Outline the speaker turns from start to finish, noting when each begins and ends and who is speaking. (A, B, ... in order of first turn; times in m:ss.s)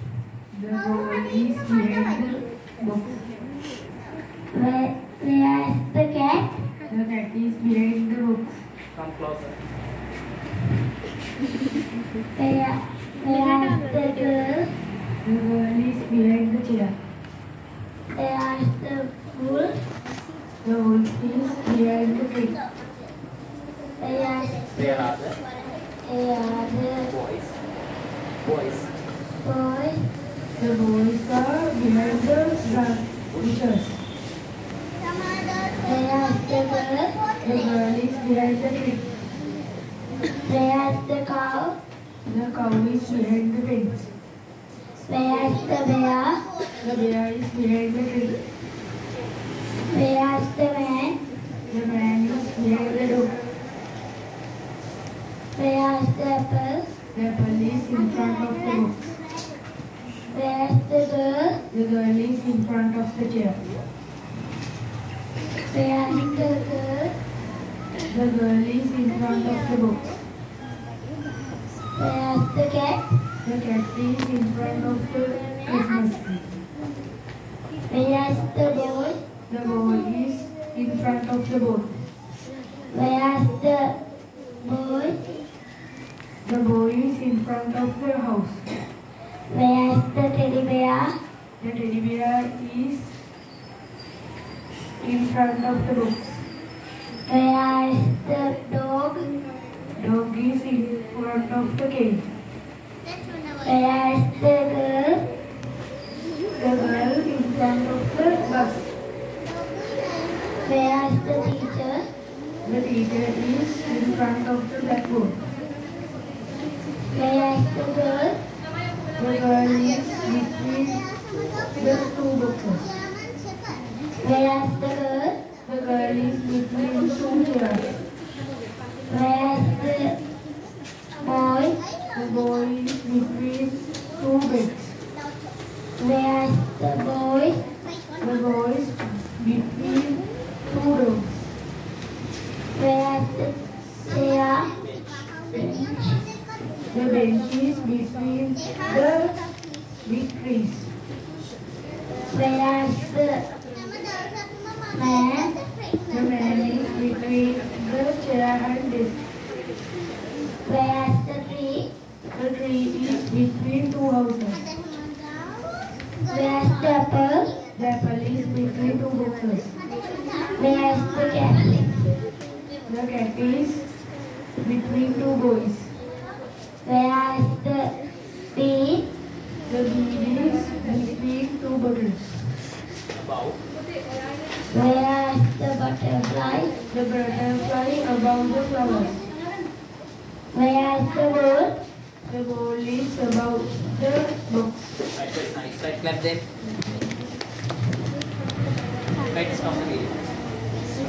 0:00.5-0:03.2 A
0:04.5-0:06.6 B
0:06.9-0:08.6 A
0:12.4-0:14.7 B
0:15.2-0:17.0 A
0:18.1-0:19.8 B
0:20.6-0:22.6 A
0:24.0-0:25.1 B
0:26.0-0:27.1 B
0:28.5-0:28.8 C
0:29.4-0:30.0 B
0:30.6-0:34.0 A
0:35.8-0:37.2 B
0:37.4-0:39.0 A
0:40.4-0:41.8 B
0:42.3-0:44.0 A
0:45.0-0:46.4 B
0:46.8-0:48.4 A
0:49.9-0:51.2 B
0:51.7-0:53.4 A
0:55.6-0:56.9 B
0:57.1-0:59.1 A
1:00.3-1:01.6 B
1:01.7-1:03.6 A
1:05.7-1:07.1 B
1:08.1-1:10.2 A
1:11.9-1:13.1 B
1:13.4-1:16.5 A
1:17.9-1:19.2 B
1:19.5-1:22.0 A
1:22.9-1:24.0 B
1:24.6-1:25.2 B
1:26.4-1:28.7 A
1:29.5-1:31.2 B
1:31.6-1:33.2 A
1:35.0-1:36.4 A
1:37.3-1:39.3 B
1:40.0-1:42.3 A
1:43.6-1:45.2 B
1:46.6-1:48.9 A
1:50.6-1:52.0 B
1:52.6-1:55.4 A
1:57.1-1:58.4 B
1:59.2-2:01.0 A
2:01.8-2:03.0 A
2:04.2-2:05.4 B
2:05.6-2:07.9 A
2:09.1-2:10.2 B
2:11.2-2:11.8 B
2:12.1-2:15.0 A
2:16.0-2:17.6 B
2:18.2-2:21.5 A
2:22.8-2:24.8 B
2:25.5-2:26.2 B
2:26.9-2:29.4 A
2:30.0-2:30.9 A
2:32.3-2:33.4 B
2:34.9-2:35.5 B
2:36.1-2:39.2 A
2:40.6-2:41.9 B
2:42.3-2:44.6 A
2:46.3-2:47.6 B
2:47.8-2:49.8 A
2:50.6-2:51.9 B
2:52.9-2:53.9 A
2:54.6-2:55.9 A
2:56.8-2:57.9 B
2:58.5-2:59.0 B
2:59.7-3:02.5 A
3:04.7-3:06.7 B
3:06.9-3:09.3 A
3:10.5-3:11.8 B
3:12.3-3:15.0 A
3:15.2-3:16.4 C
3:19.3-3:20.1 C